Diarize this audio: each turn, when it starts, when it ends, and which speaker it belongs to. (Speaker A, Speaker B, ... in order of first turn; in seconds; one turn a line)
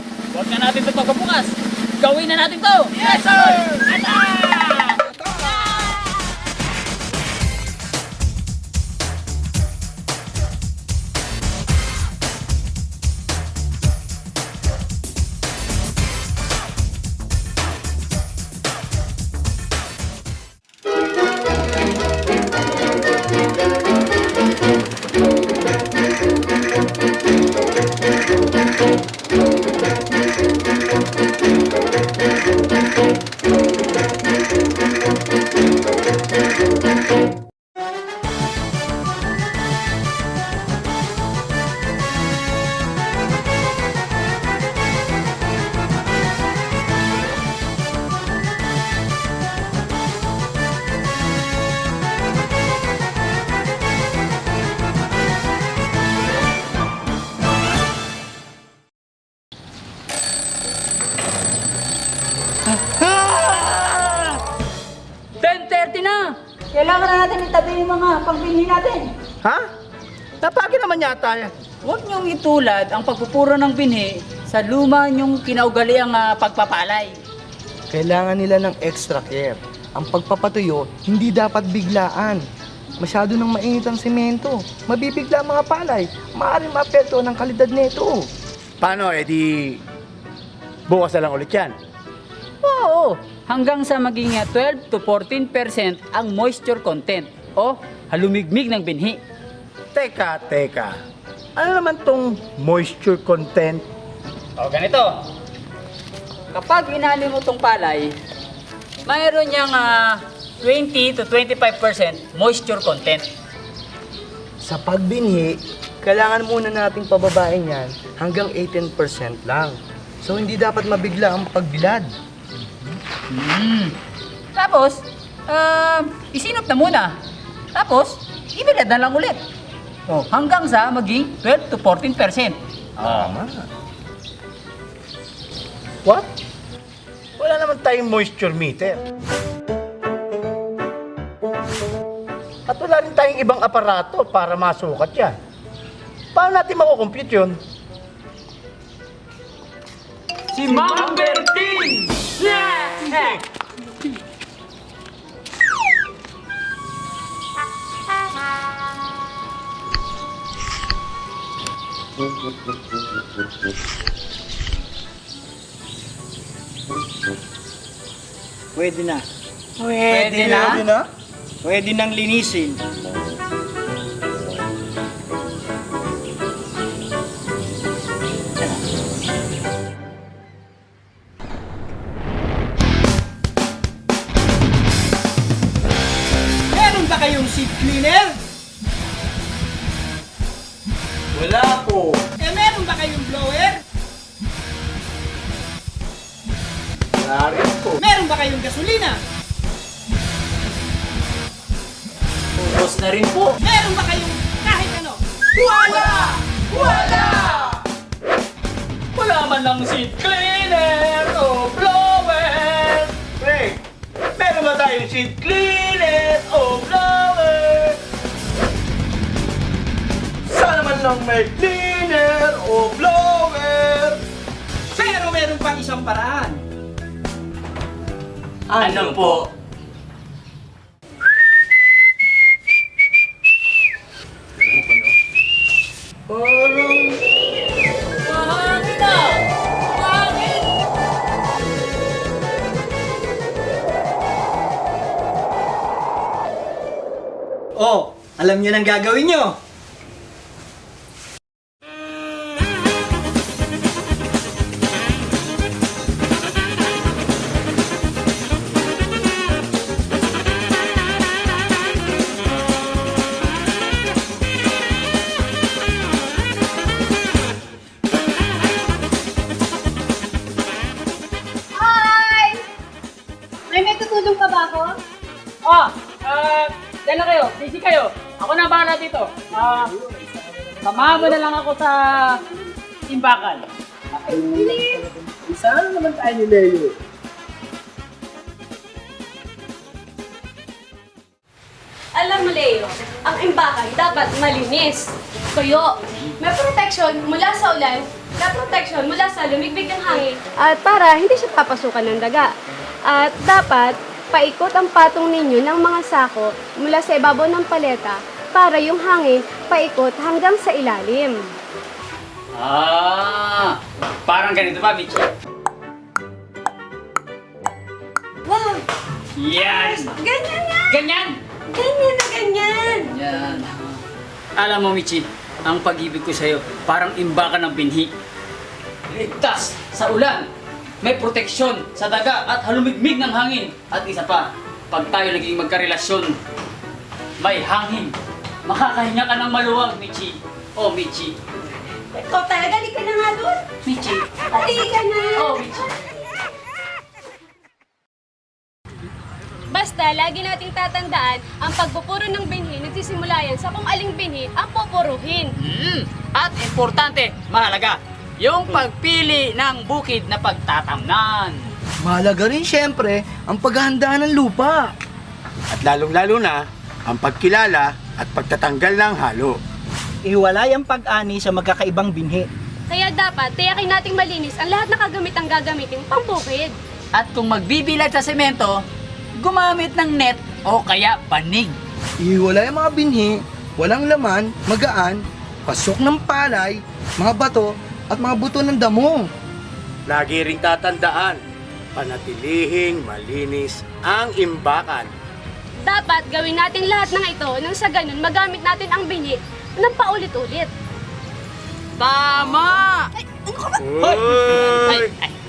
Speaker A: 0.3-6.3
Speaker B: 5.2-5.8
Speaker C: 62.7-64.4
Speaker A: 65.4-69.1
Speaker C: 70.4-71.5
Speaker A: 71.8-77.2
Speaker B: 77.9-82.4
Speaker B: 83.0-88.3
Speaker C: 88.8-89.8
Speaker C: 90.9-91.7
Speaker A: 92.6-99.2
Speaker C: 99.9-100.9
Speaker C: 101.5-103.8
Speaker A: 104.6-105.2
Speaker A: 106.5-108.1
Speaker A: 109.0-113.2
Speaker B: 114.6-122.1
Speaker A: 123.3-123.9
Speaker A: 124.5-127.1
Speaker A: 127.7-129.4
Speaker A: 130.1-132.6
Speaker C: 133.0-133.3
Speaker B: 133.0-133.6
Speaker C: 137.4-139.0
Speaker C: 142.7-145.3
Speaker C: 146.3-147.6
Speaker A: 150.5-153.4
Speaker D: 168.7-169.2
Speaker B: 169.8-171.0
Speaker A: 170.1-170.8
Speaker D: 171.6-172.8
Speaker D: 186.7-188.4
Speaker B: 191.4-191.8
Speaker C: 191.4-192.1
Speaker D: 192.4-193.8
Speaker C: 197.2-198.0
Speaker D: 198.0-199.2
Speaker A: 202.6-203.6
Speaker D: 203.6-205.2
Speaker A: 205.7-207.6
Speaker C: 205.9-206.2
Speaker C: 206.9-207.7
Speaker A: 209.1-213.1
Speaker C: 213.3-213.8
Speaker C: 214.3-218.0
Speaker B: 220.5-224.2
Speaker D: 224.9-226.6
Speaker B: 228.7-229.5
Speaker A: 228.8-229.4
Speaker B: 234.6-235.1
Speaker B: 236.3-237.2
Speaker A: 238.2-240.7
Speaker D: 247.8-249.6
Speaker E: 271.8-272.6
Speaker E: 273.7-275.0
Speaker A: 275.6-279.9
Speaker B: 280.1-280.7
Speaker A: 280.8-282.3
Speaker A: 283.1-283.7
Speaker B: 284.3-286.9
Speaker E: 284.3-284.9
Speaker E: 292.1-302.5
Speaker E: 303.1-311.5
Speaker A: 312.5-315.3
Speaker E: 318.4-318.8
Speaker A: 319.4-320.1
Speaker E: 319.7-320.9
Speaker A: 320.9-321.4
Speaker E: 321.7-323.1
Speaker A: 322.9-324.0
Speaker A: 324.6-328.1
Speaker A: 329.1-330.5
Speaker A: 331.0-336.3
Speaker A: 337.4-338.1
Speaker A: 338.6-341.3
Speaker E: 342.1-343.6
Speaker A: 343.8-344.7
Speaker E: 344.5-345.5
Speaker A: 345.4-345.9
Speaker E: 349.7-355.5
Speaker A: 355.6-361.6
Speaker B: 362.0-364.8
Speaker C: 365.7-369.6
Speaker D: 370.2-372.5
Speaker E: 372.9-376.8
Speaker A: 377.1-378.8
Speaker A: 379.4-381.8
Speaker B: 382.2-389.2
Speaker C: 390.1-391.4
Speaker C: 391.9-395.1
Speaker E: 395.8-400.7
Speaker A: 402.0-405.3
Speaker C: 403.8-405.1